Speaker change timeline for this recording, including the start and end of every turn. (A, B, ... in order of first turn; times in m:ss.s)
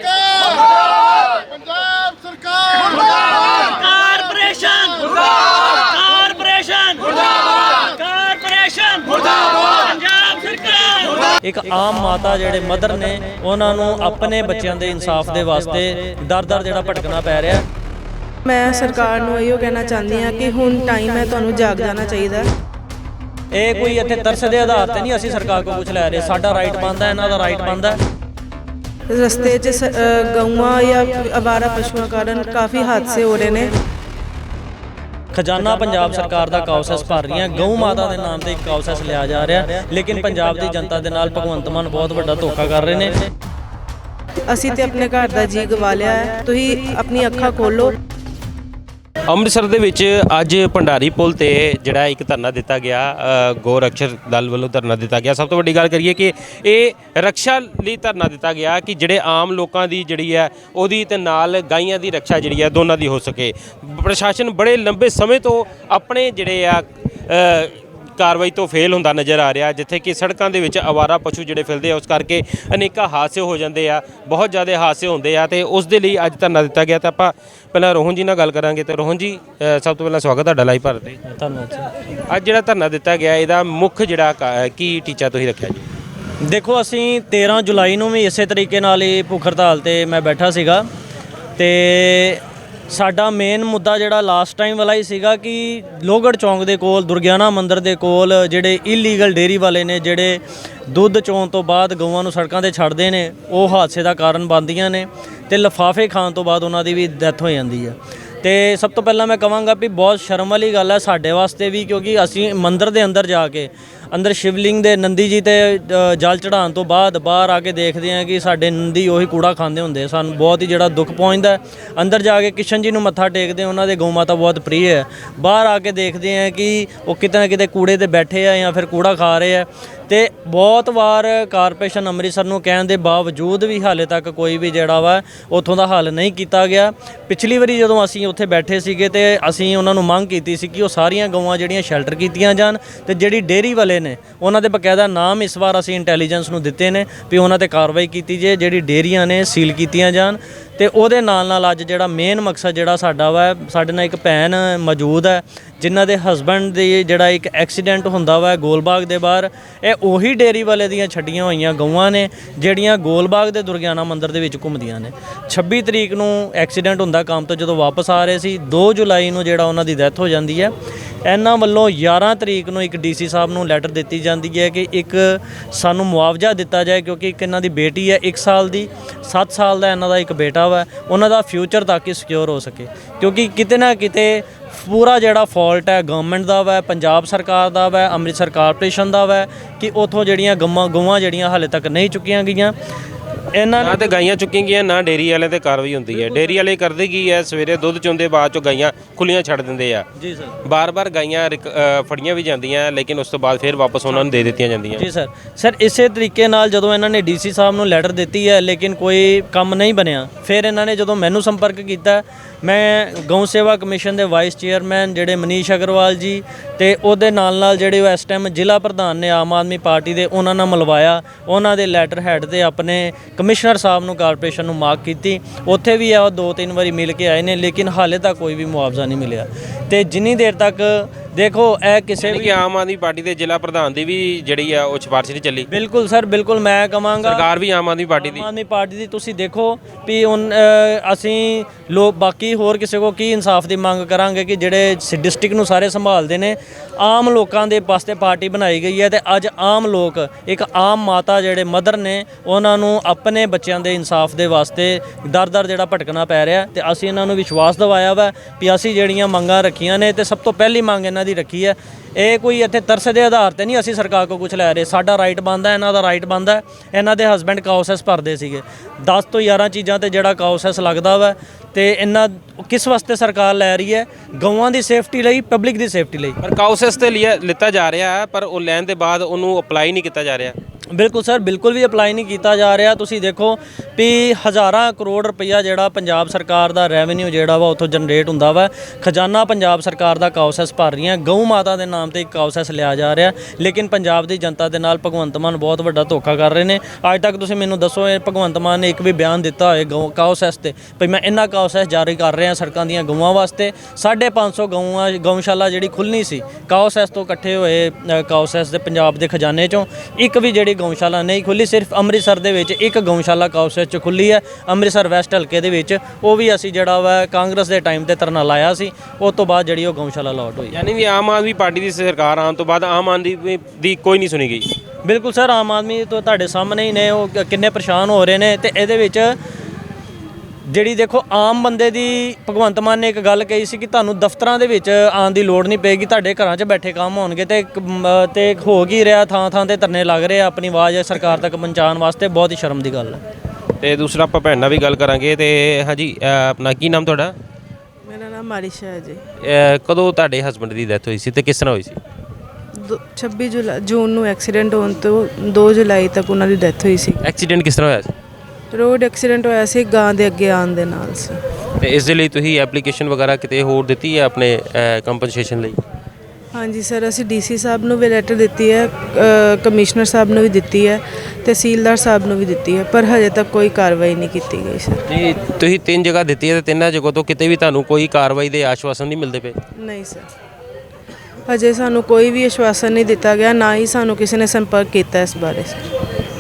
0:02.8-0:17.6 A
0:18.4-0:22.5 B
0:23.5-0:28.0 A
0:29.1-0:33.8 B
0:35.3-0:43.3 A
0:44.5-0:48.0 B
0:49.3-1:21.2 C
1:21.2-1:21.9 A
1:22.3-1:25.8 C
1:26.4-1:30.9 A
1:31.6-2:50.7 A
2:51.2-3:12.8 A
3:13.5-3:14.2 A
3:13.8-3:20.1 C
3:16.1-3:16.6 A
3:20.2-3:20.6 A
3:20.6-3:25.1 C
3:24.1-3:52.6 A
3:52.2-3:55.7 C
3:55.7-3:57.5 A
3:57.2-3:58.5 C
3:58.2-4:36.4 A
4:36.4-4:40.6 C
4:40.9-5:20.8 A
5:20.7-5:24.7 C
5:25.0-5:29.4 A
5:30.7-5:43.2 A
5:43.8-5:47.4 C
5:48.0-5:49.2 B
5:49.4-5:52.0 C
5:52.7-5:57.2 B
5:57.2-5:58.1 C
5:58.7-6:01.4 B
6:01.8-6:05.8 C
6:06.5-6:15.1 B
6:15.1-6:19.6 C
6:19.8-6:20.3 B
6:21.5-6:25.9 B